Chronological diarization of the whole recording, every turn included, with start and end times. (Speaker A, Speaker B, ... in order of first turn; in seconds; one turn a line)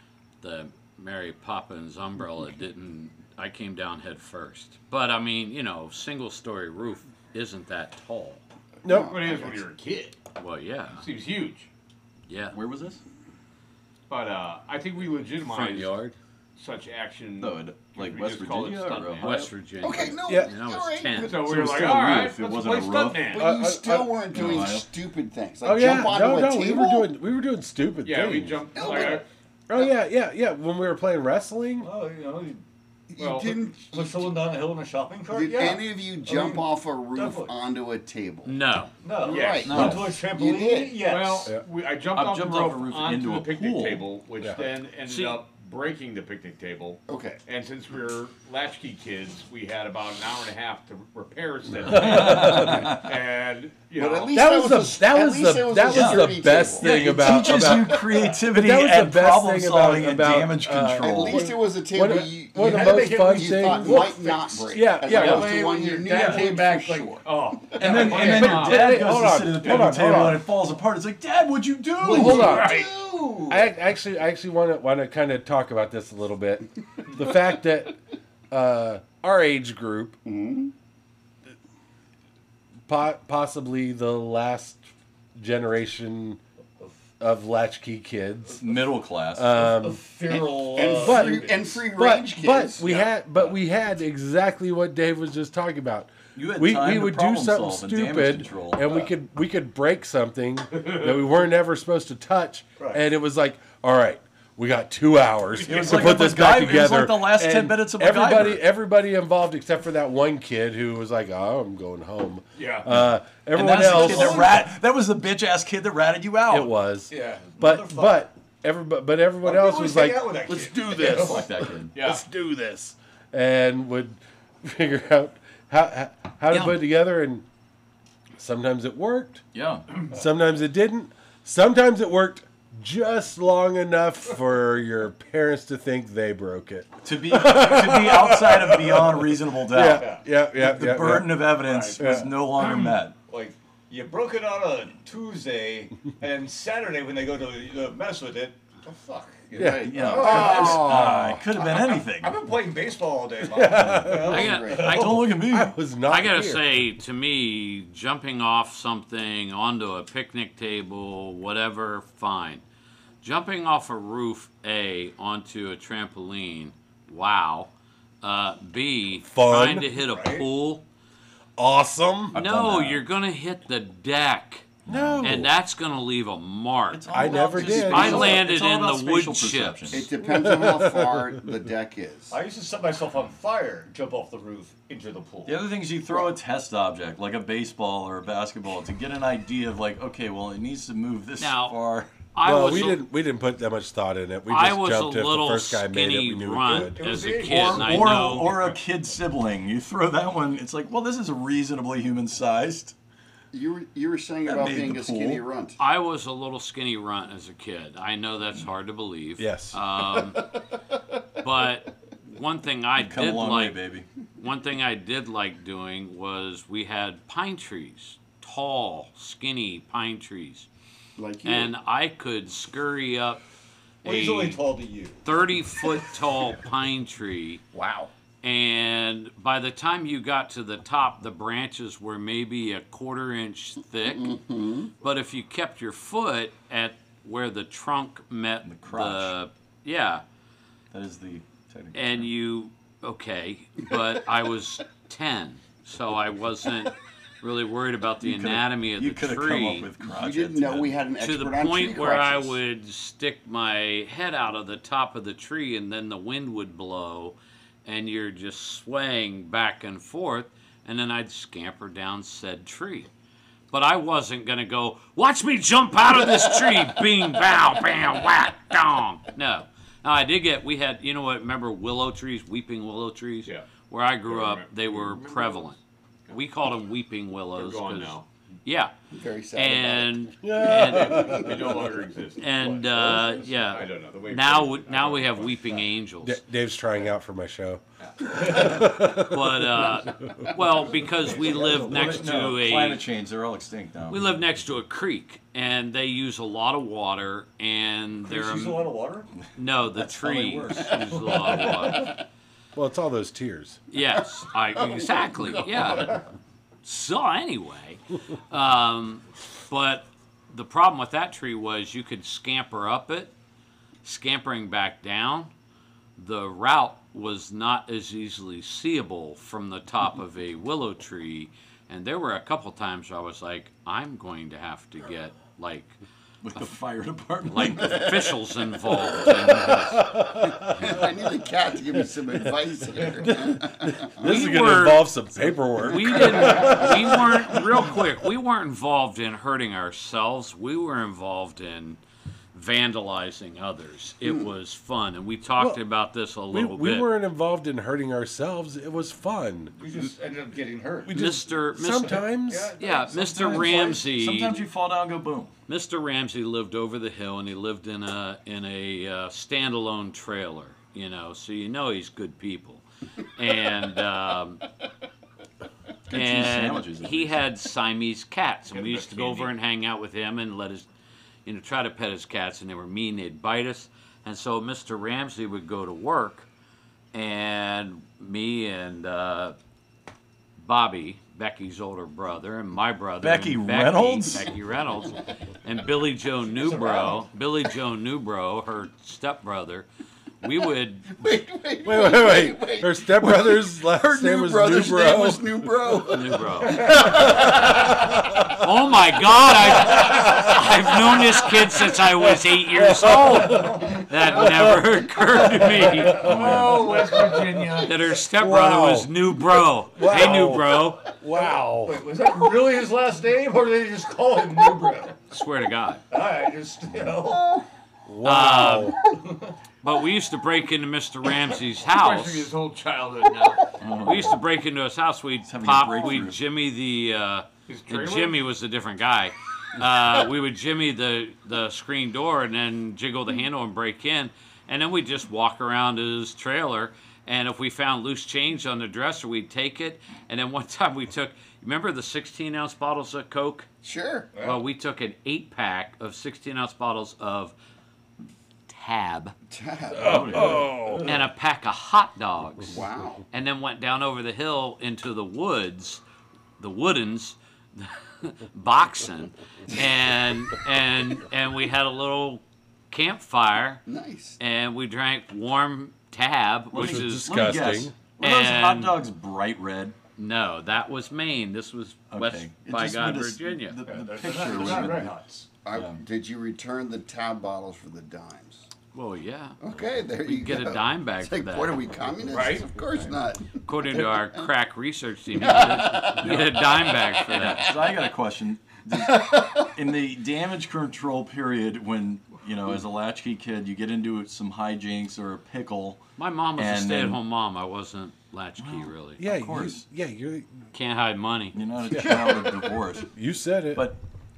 Speaker A: 0.4-8.4
Speaker B: 8.8-9.6
Speaker C: 8.8-9.2
Speaker D: 8.9-10.2
Speaker A: 10.3-11.0
Speaker D: 10.9-11.7
Speaker A: 12.3-12.6
Speaker E: 12.5-13.0
Speaker D: 14.1-15.9
Speaker A: 15.4-16.1
Speaker D: 16.6-19.4
Speaker E: 17.4-19.5
Speaker A: 19.2-21.4
Speaker B: 19.8-21.7
Speaker C: 20.3-20.5
Speaker D: 21.2-23.5
Speaker E: 21.4-23.4
Speaker B: 23.3-27.1
Speaker C: 23.3-24.5
Speaker E: 24.3-24.9
Speaker C: 25.6-29.1
Speaker D: 28.0-29.2
Speaker B: 28.7-29.2
Speaker C: 29.7-31.9
Speaker F: 31.8-32.6
Speaker B: 33.1-34.4
Speaker D: 33.2-33.5
Speaker F: 33.8-37.5
Speaker B: 35.3-38.6
Speaker A: 38.4-38.9
Speaker F: 39.0-41.5
Speaker B: 39.2-41.0
Speaker D: 39.2-39.7
Speaker E: 39.6-40.1
Speaker D: 41.0-54.4
Speaker E: 42.1-44.0
Speaker A: 45.1-45.4
Speaker B: 47.1-47.4
Speaker C: 51.9-52.9
Speaker E: 51.9-53.0
Speaker B: 54.0-57.7
Speaker C: 54.3-64.2
Speaker E: 55.9-61.5
Speaker B: 61.0-67.2
Speaker F: 62.1-68.7
Speaker C: 64.7-65.5
Speaker E: 66.1-66.4
Speaker D: 67.2-70.3
Speaker E: 67.8-72.6
Speaker C: 68.1-70.5
Speaker F: 72.0-73.7
Speaker C: 72.1-72.9
Speaker D: 72.4-72.8
Speaker C: 73.5-78.0
Speaker C: 78.5-80.2
Speaker B: 80.2-80.7
Speaker C: 82.9-86.4
Speaker C: 87.2-88.6
Speaker E: 88.6-89.6
Speaker C: 89.3-90.0
Speaker F: 89.6-91.8
Speaker B: 90.3-93.0
Speaker C: 91.0-114.7
Speaker E: 96.3-99.0
Speaker D: 100.8-101.2
Speaker F: 102.8-103.0
Speaker E: 105.6-108.6
Speaker D: 112.5-112.8
Speaker F: 112.6-112.8
Speaker E: 113.5-116.7
Speaker F: 113.9-114.5
Speaker C: 116.5-127.4
Speaker F: 117.1-118.3
Speaker F: 119.4-121.5
Speaker E: 121.0-122.0
Speaker D: 121.9-122.2
Speaker E: 126.5-126.8
Speaker C: 128.3-129.4
Speaker E: 129.5-129.9
Speaker C: 130.1-142.3
Speaker E: 137.0-143.2
Speaker F: 139.8-140.3
Speaker F: 141.7-155.4
Speaker B: 149.5-150.6
Speaker C: 149.5-151.5
Speaker E: 149.8-152.4
Speaker C: 153.5-154.5
Speaker B: 154.2-154.9
Speaker A: 154.2-155.3
Speaker E: 154.8-155.7
Speaker C: 155.4-156.8
Speaker A: 156.1-162.6
Speaker A: 163.2-167.7
Speaker A: 168.2-170.8
Speaker C: 169.2-169.9
Speaker F: 169.9-170.5
Speaker C: 171.6-172.4
Speaker E: 172.3-173.0
Speaker A: 172.3-180.1
Speaker E: 174.9-175.4
Speaker C: 174.9-175.5
Speaker E: 176.9-180.1
Speaker C: 177.1-178.4
Speaker F: 177.6-178.3
Speaker B: 179.9-182.3
Speaker C: 180.2-181.5
Speaker F: 182.3-185.6
Speaker E: 185.4-192.2
Speaker A: 191.4-191.8
Speaker A: 192.3-193.0
Speaker C: 192.4-197.0
Speaker A: 194.5-198.6
Speaker F: 196.7-198.8
Speaker E: 197.4-202.9
Speaker B: 203.5-205.8
Speaker E: 204.4-205.4
Speaker A: 205.8-210.5
Speaker C: 209.4-209.8
Speaker A: 211.4-213.8
Speaker E: 213.0-214.1
Speaker A: 214.4-220.7
Speaker B: 221.2-221.7
Speaker A: 221.4-223.4
Speaker A: 224.0-224.6
Speaker F: 224.0-225.2
Speaker A: 225.2-227.6
Speaker B: 227.7-228.1
Speaker A: 228.4-234.4
Speaker B: 234.1-234.9
Speaker A: 235.0-240.2
Speaker E: 238.6-239.3
Speaker E: 240.9-242.3
Speaker A: 241.9-249.9
Speaker E: 248.2-251.0
Speaker B: 250.0-252.6
Speaker A: 251.2-263.1
Speaker A: 263.7-278.9
Speaker D: 274.2-275.7
Speaker D: 277.5-278.2
Speaker B: 279.1-281.9
Speaker A: 279.5-281.4
Speaker C: 280.4-281.6
Speaker D: 280.8-282.5
Speaker A: 282.4-286.4
Speaker F: 283.0-283.3
Speaker D: 283.5-285.8
Speaker C: 286.2-289.9
Speaker A: 288.4-293.0
Speaker F: 291.2-292.5
Speaker E: 291.8-294.4
Speaker A: 294.1-298.9
Speaker F: 298.2-299.3
Speaker A: 299.5-302.1
Speaker E: 300.2-300.9
Speaker F: 301.0-302.0
Speaker C: 302.7-303.8
Speaker A: 303.9-306.2
Speaker B: 304.8-306.2
Speaker A: 306.8-313.3
Speaker A: 314.0-315.5
Speaker A: 316.2-326.0
Speaker E: 326.4-328.2
Speaker A: 327.4-330.1
Speaker C: 329.2-331.1
Speaker B: 330.4-334.3
Speaker C: 332.0-338.0
Speaker A: 334.2-335.2
Speaker A: 335.8-342.0
Speaker A: 342.5-347.1
Speaker C: 346.5-349.7
Speaker F: 349.8-351.3
Speaker C: 351.1-352.7
Speaker A: 351.1-354.6
Speaker F: 352.4-354.0
Speaker E: 353.3-355.5
Speaker A: 355.7-362.8
Speaker A: 363.3-364.6
Speaker A: 366.1-370.9
Speaker E: 366.1-367.4
Speaker D: 368.7-369.5
Speaker A: 371.4-376.5
Speaker A: 377.1-379.6
Speaker A: 380.6-389.9
Speaker E: 383.2-384.5
Speaker F: 386.5-387.3
Speaker A: 390.4-391.1
Speaker B: 391.1-397.9
Speaker C: 391.8-395.7
Speaker A: 396.1-397.7
Speaker C: 396.9-398.5
Speaker A: 398.4-406.3
Speaker C: 399.9-400.8
Speaker C: 402.2-409.4
Speaker F: 403.2-404.1
Speaker F: 406.0-407.6
Speaker D: 406.0-407.9
Speaker A: 407.8-411.1
Speaker C: 409.9-412.0
Speaker F: 410.1-410.4
Speaker F: 411.3-415.2
Speaker A: 415.3-416.0
Speaker F: 416.1-417.6
Speaker B: 417.2-417.6
Speaker C: 418.1-419.0
Speaker A: 418.2-419.0
Speaker F: 419.1-419.5
Speaker A: 419.8-422.5
Speaker D: 421.9-423.8
Speaker E: 423.8-424.4
Speaker A: 424.0-443.7
Speaker E: 425.4-426.4
Speaker D: 427.7-428.4
Speaker B: 443.8-444.3
Speaker F: 444.3-444.6
Speaker A: 444.4-447.5
Speaker A: 448.7-449.3
Speaker B: 449.5-450.6
Speaker C: 449.9-451.1
Speaker E: 450.0-450.6
Speaker A: 451.0-456.0
Speaker B: 452.7-453.2
Speaker A: 456.6-463.8
Speaker B: 463.9-464.4
Speaker A: 464.4-467.5
Speaker C: 466.7-467.9
Speaker E: 466.7-470.0
Speaker A: 468.2-469.0
Speaker A: 470.2-473.8
Speaker E: 472.1-476.0
Speaker F: 473.8-475.5
Speaker B: 475.6-478.7
Speaker A: 478.9-479.6
Speaker B: 479.6-484.4
Speaker A: 480.2-481.8
Speaker D: 482.3-482.7
Speaker A: 483.6-487.7
Speaker B: 485.3-488.1
Speaker E: 486.2-486.6
Speaker E: 487.3-496.0
Speaker B: 488.9-489.7
Speaker A: 496.2-499.7
Speaker E: 496.6-497.2
Speaker E: 498.6-499.8
Speaker C: 499.2-500.6
Speaker A: 500.7-501.6
Speaker E: 501.5-503.1
Speaker C: 501.9-503.9
Speaker B: 502.1-502.5
Speaker E: 503.7-504.0